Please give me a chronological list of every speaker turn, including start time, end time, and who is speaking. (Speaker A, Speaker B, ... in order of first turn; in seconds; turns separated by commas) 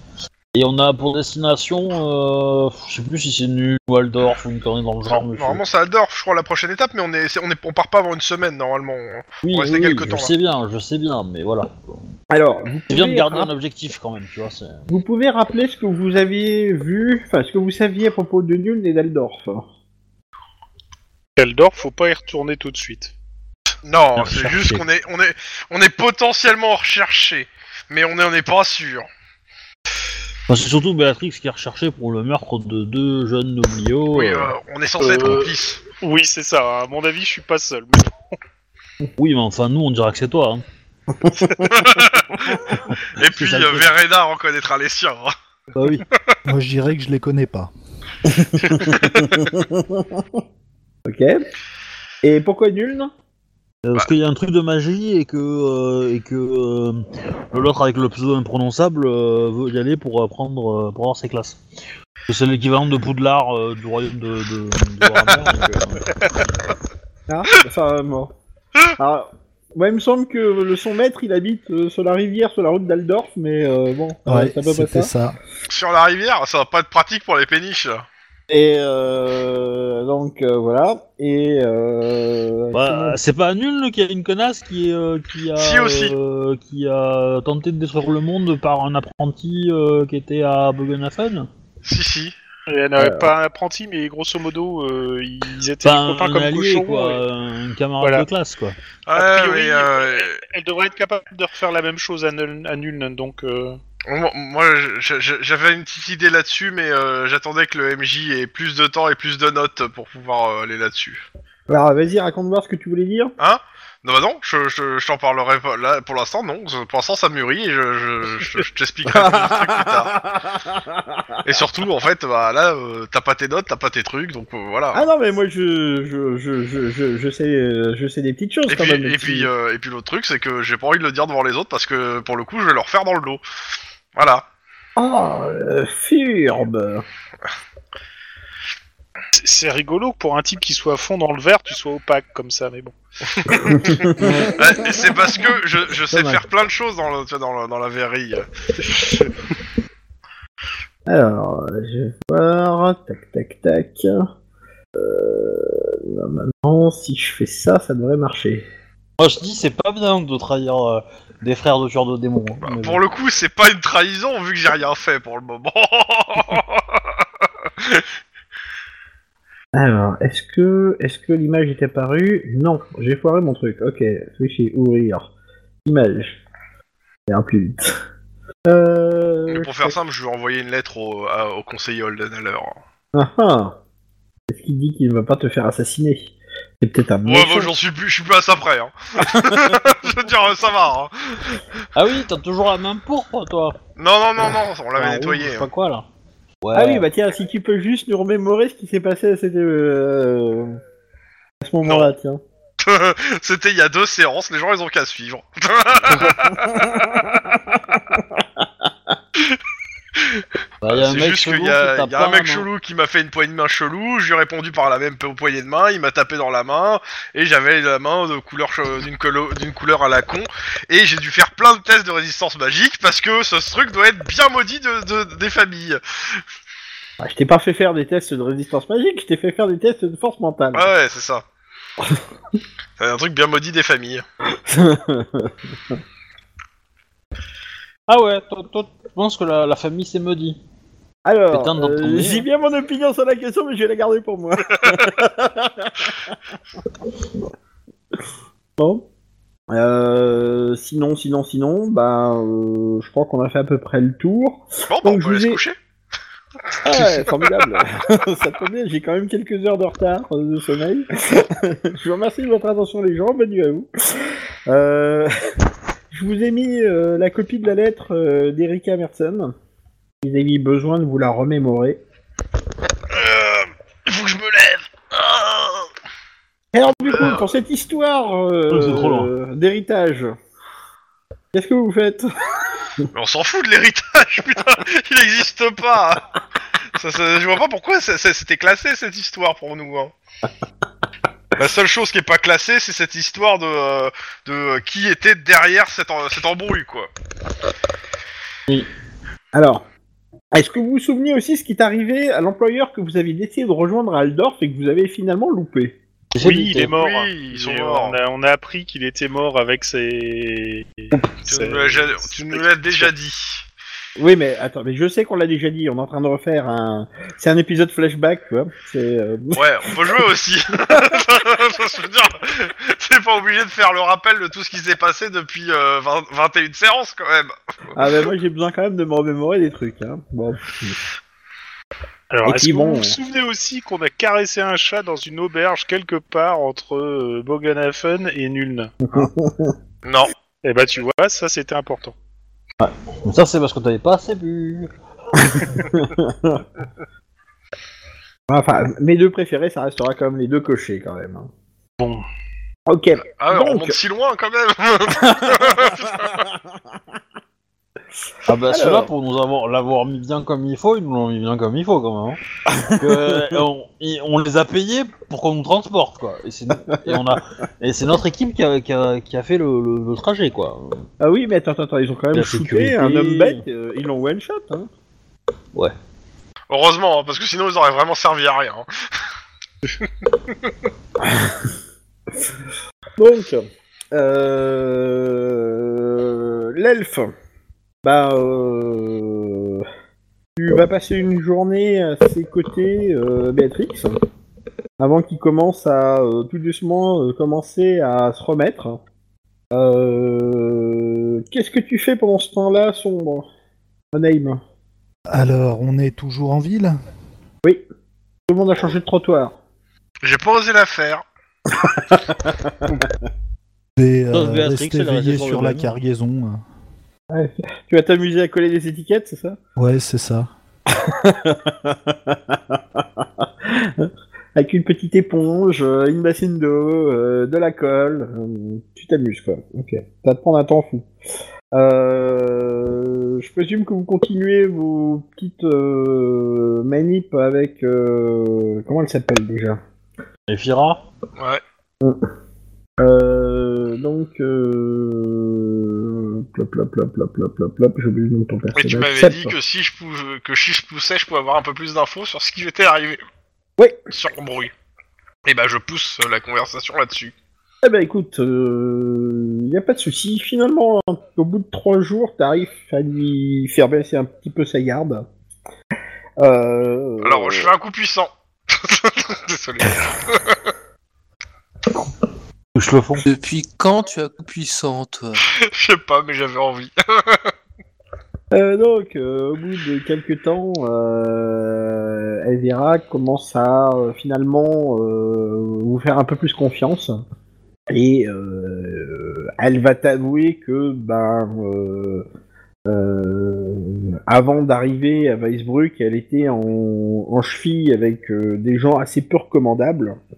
Speaker A: 0.5-5.6, Speaker B: 5.1-10.3, Speaker A: 9.4-12.0, Speaker C: 12.3-13.5, Speaker A: 12.9-14.9, Speaker C: 14.9-19.6, Speaker D: 21.4-23.1, Speaker B: 23.8-29.1, Speaker A: 24.2-24.9, Speaker A: 30.5-34.5, Speaker B: 34.1-35.8, Speaker D: 35.0-38.1, Speaker A: 39.2-40.6, Speaker C: 41.1-41.7, Speaker B: 41.7-45.3, Speaker A: 43.2-43.9, Speaker A: 45.8-46.0, Speaker E: 46.5-47.7, Speaker A: 48.4-49.3, Speaker C: 49.6-50.2, Speaker C: 51.1-51.4, Speaker C: 52.2-53.1, Speaker A: 53.8-61.6, Speaker A: 62.3-66.5, Speaker C: 67.3-68.3, Speaker C: 69.0-75.1, Speaker E: 74.3-75.4, Speaker B: 75.7-78.1, Speaker C: 78.5-83.2, Speaker A: 82.7-91.5, Speaker B: 85.6-86.1, Speaker B: 91.8-92.4, Speaker D: 92.7-97.2, Speaker A: 95.8-98.8, Speaker D: 98.0-98.3, Speaker B: 99.1-100.4, Speaker D: 99.2-103.8, Speaker B: 104.1-111.2, Speaker C: 111.7-113.3, Speaker B: 113.4-120.1, Speaker C: 119.1-121.6, Speaker B: 121.4-125.1, Speaker C: 124.9-129.5, Speaker B: 128.7-133.4, Speaker B: 134.2-134.4, Speaker C: 135.0-137.1, Speaker D: 139.3-142.9, Speaker C: 143.5-144.5, Speaker B: 143.8-148.5, Speaker A: 144.2-144.7, Speaker A: 146.0-146.4, Speaker D: 148.9-149.3, Speaker C: 151.1-154.2, Speaker C: 155.0-158.7, Speaker A: 159.2-163.0, Speaker B: 162.6-168.1, Speaker C: 169.7-175.3, Speaker C: 175.8-176.4, Speaker C: 177.3-178.0, Speaker C: 178.7-179.9, Speaker B: 179.5-182.8, Speaker C: 183.1-183.8, Speaker C: 184.5-187.8, Speaker B: 187.2-191.6, Speaker A: 191.9-193.8, Speaker B: 194.0-195.7, Speaker A: 194.9-196.1, Speaker A: 196.6-197.1, Speaker C: 196.8-200.8, Speaker C: 201.6-202.4, Speaker B: 201.8-202.1, Speaker B: 202.8-206.9, Speaker C: 206.3-207.4, Speaker C: 207.9-208.7, Speaker B: 210.2-226.4, Speaker A: 210.8-212.7, Speaker C: 227.2-230.9, Speaker B: 230.7-231.4, Speaker B: 233.0-234.2, Speaker C: 234.7-236.0, Speaker A: 238.1-240.6, Speaker C: 241.3-246.4, Speaker A: 241.5-242.5, Speaker C: 248.8-249.0, Speaker C: 249.7-255.6, Speaker B: 254.9-255.8, Speaker C: 256.8-265.3, Speaker B: 257.0-257.5, Speaker C: 266.1-269.5, Speaker C: 270.2-272.0, Speaker B: 273.1-275.9, Speaker C: 276.7-280.4, Speaker B: 276.9-277.5, Speaker A: 278.7-279.3, Speaker C: 281.5-282.3, Speaker B: 283.1-286.2, Speaker B: 287.0-290.1, Speaker B: 291.6-297.1, Speaker C: 299.5-299.9, Speaker C: 300.5-306.0, Speaker A: 306.3-306.9, Speaker D: 306.4-313.1, Speaker B: 306.8-308.2, Speaker B: 311.5-313.7, Speaker C: 314.2-320.2, Speaker B: 319.5-328.2, Speaker C: 328.0-331.0, Speaker D: 332.3-338.9, Speaker C: 332.4-333.2, Speaker C: 339.1-339.8, Speaker B: 340.0-340.3, Speaker D: 340.6-342.1, Speaker A: 342.8-344.9, Speaker C: 345.8-346.7, Speaker C: 348.5-351.5, Speaker D: 352.0-352.2, Speaker C: 352.9-354.0, Speaker B: 353.3-356.5, Speaker A: 358.5-362.4, Speaker C: 358.7-359.1, Speaker C: 362.7-363.6, Speaker A: 363.0-371.1, Speaker C: 371.2-374.9, Speaker A: 372.3-373.6, Speaker B: 376.7-378.9, Speaker C: 383.2-387.3, Speaker C: 388.0-389.9, Speaker C: 390.6-394.2, Speaker C: 395.0-399.0, Speaker C: 399.7-403.5, Speaker C: 404.1-404.6, Speaker E: 405.3-407.0, Speaker C: 408.5-409.6, Speaker B: 410.2-411.2, Speaker C: 411.9-413.1, Speaker E: 414.0-416.6, Speaker A: 414.3-415.9, Speaker C: 417.3-419.6, Speaker E: 419.8-420.5, Speaker C: 420.9-431.1, Speaker C: 431.7-439.8, Speaker A: 440.5-441.0, Speaker C: 443.0-449.5, Speaker B: 448.7-453.2, Speaker B: 454.1-454.7, Speaker B: 455.4-457.3, Speaker C: 457.8-465.3, Speaker C: 466.4-467.7, Speaker B: 467.2-470.6, Speaker A: 472.8-473.3, Speaker F: 473.2-475.4, Speaker B: 475.5-477.5, Speaker C: 478.5-487.2, Speaker C: 487.9-492.3, Speaker C: 492.9-500.2